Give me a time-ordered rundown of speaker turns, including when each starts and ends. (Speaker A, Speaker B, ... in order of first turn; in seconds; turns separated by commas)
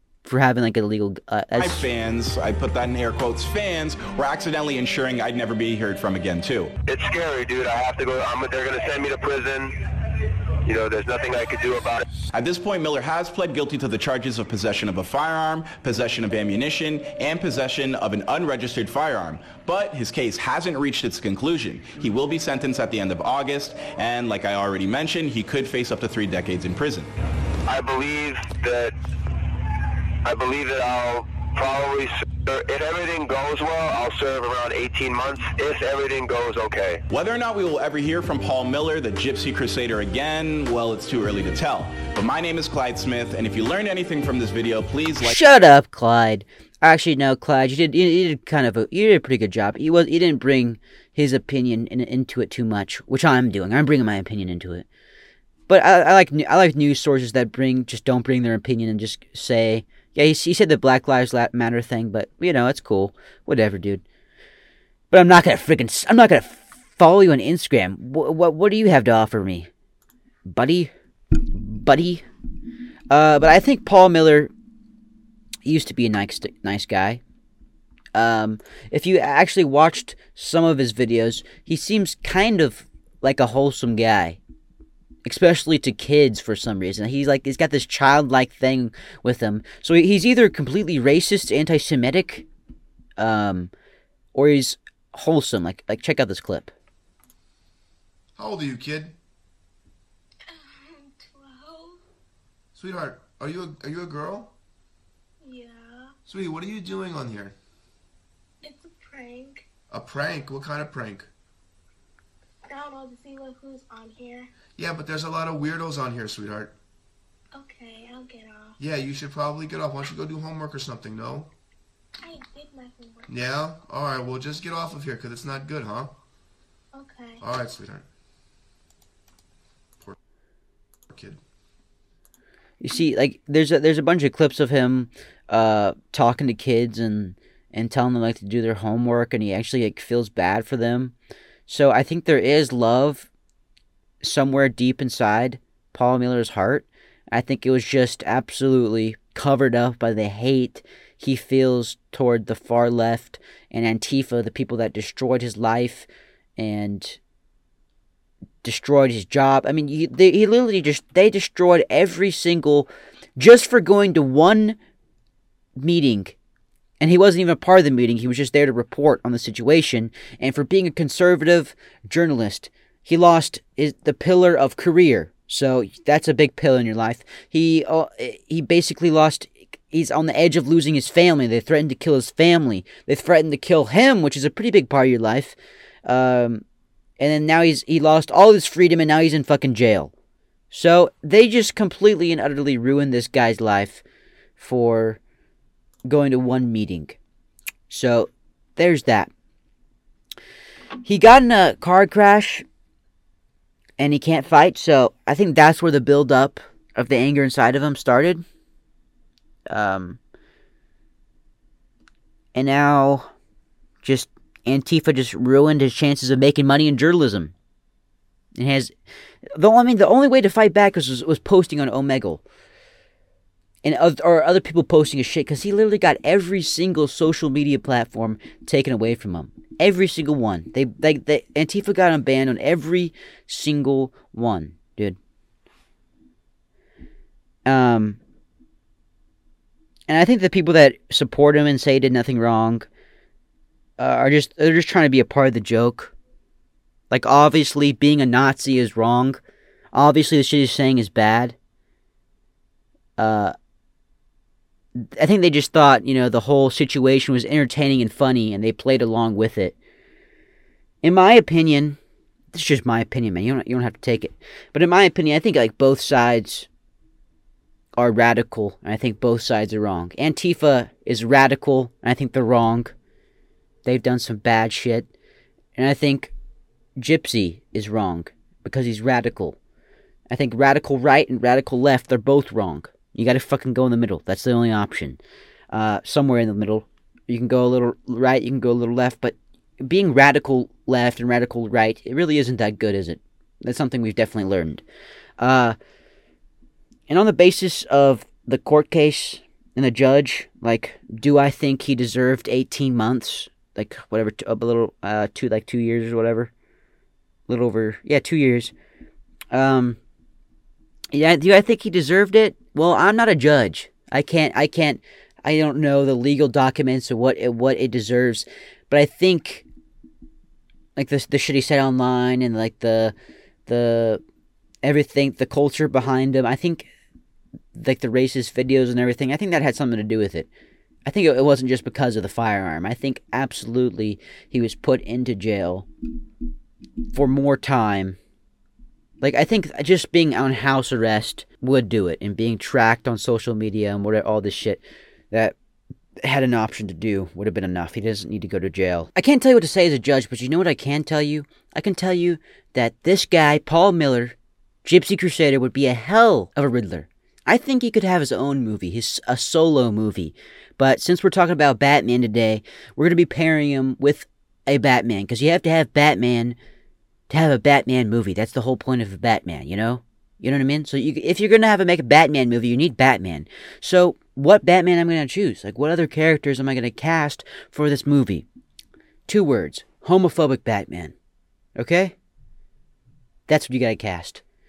Speaker A: 0.2-1.9, Speaker B: 1.6-6.8, Speaker C: 6.9-9.7, Speaker C: 10.7-12.0, Speaker B: 12.3-27.1, Speaker C: 27.7-28.9, Speaker C: 30.2-37.0, Speaker B: 37.1-45.4, Speaker A: 45.2-54.9, Speaker A: 55.7-64.0, Speaker A: 65.1-69.7, Speaker A: 70.5-70.9, Speaker A: 71.5-72.2, Speaker A: 73.1-74.5, Speaker A: 75.7-77.2, Speaker A: 78.1-84.4, Speaker A: 85.2-92.5, Speaker A: 93.2-93.7, Speaker A: 94.3-96.7, Speaker D: 98.4-99.2, Speaker E: 100.5-102.0, Speaker D: 102.8-104.5, Speaker E: 105.4-106.2, Speaker D: 106.3-107.5, Speaker E: 108.6-109.7, Speaker D: 109.9-111.3, Speaker E: 112.7-114.5, Speaker D: 114.8-116.8, Speaker E: 117.5-118.8, Speaker D: 118.8-121.5, Speaker E: 122.2-123.3, Speaker D: 123.3-126.1, Speaker E: 126.9-127.4, Speaker D: 127.4-128.1, Speaker D: 131.1-131.4, Speaker A: 132.8-141.1, Speaker A: 141.7-143.3, Speaker A: 144.2-157.2, Speaker A: 158.6-164.8, Speaker A: 165.8-166.3, Speaker A: 167.0-186.6, Speaker A: 187.2-190.1, Speaker A: 190.7-194.0, Speaker A: 194.6-195.2, Speaker A: 196.1-197.2, Speaker A: 197.9-199.3, Speaker A: 201.1-202.6, Speaker A: 204.0-208.4, Speaker A: 209.7-210.2, Speaker A: 212.6-213.3, Speaker A: 214.0-217.5, Speaker A: 218.6-218.9, Speaker A: 219.6-222.4, Speaker A: 223.8-235.2, Speaker A: 237.7-238.2, Speaker A: 240.1-242.9, Speaker A: 244.0-246.1, Speaker A: 247.1-249.4, Speaker A: 249.9-251.6, Speaker A: 253.2-253.6, Speaker A: 255.0-259.8, Speaker A: 261.0-262.0, Speaker A: 262.5-266.7, Speaker A: 268.0-272.9, Speaker A: 273.9-275.1, Speaker A: 275.8-276.3, Speaker A: 277.0-279.6, Speaker A: 280.3-285.2, Speaker A: 285.7-294.8, Speaker A: 295.4-295.8, Speaker A: 297.1-306.5, Speaker A: 307.5-308.7, Speaker A: 309.5-310.0, Speaker A: 311.1-319.6, Speaker A: 321.0-323.1, Speaker A: 323.7-324.2, Speaker A: 324.8-326.9, Speaker A: 327.8-330.5, Speaker A: 331.1-335.9, Speaker A: 337.1-338.2, Speaker A: 339.2-345.6, Speaker A: 346.2-366.6, Speaker A: 367.3-378.4, Speaker A: 379.3-381.1, Speaker A: 381.8-382.1, Speaker A: 383.5-384.4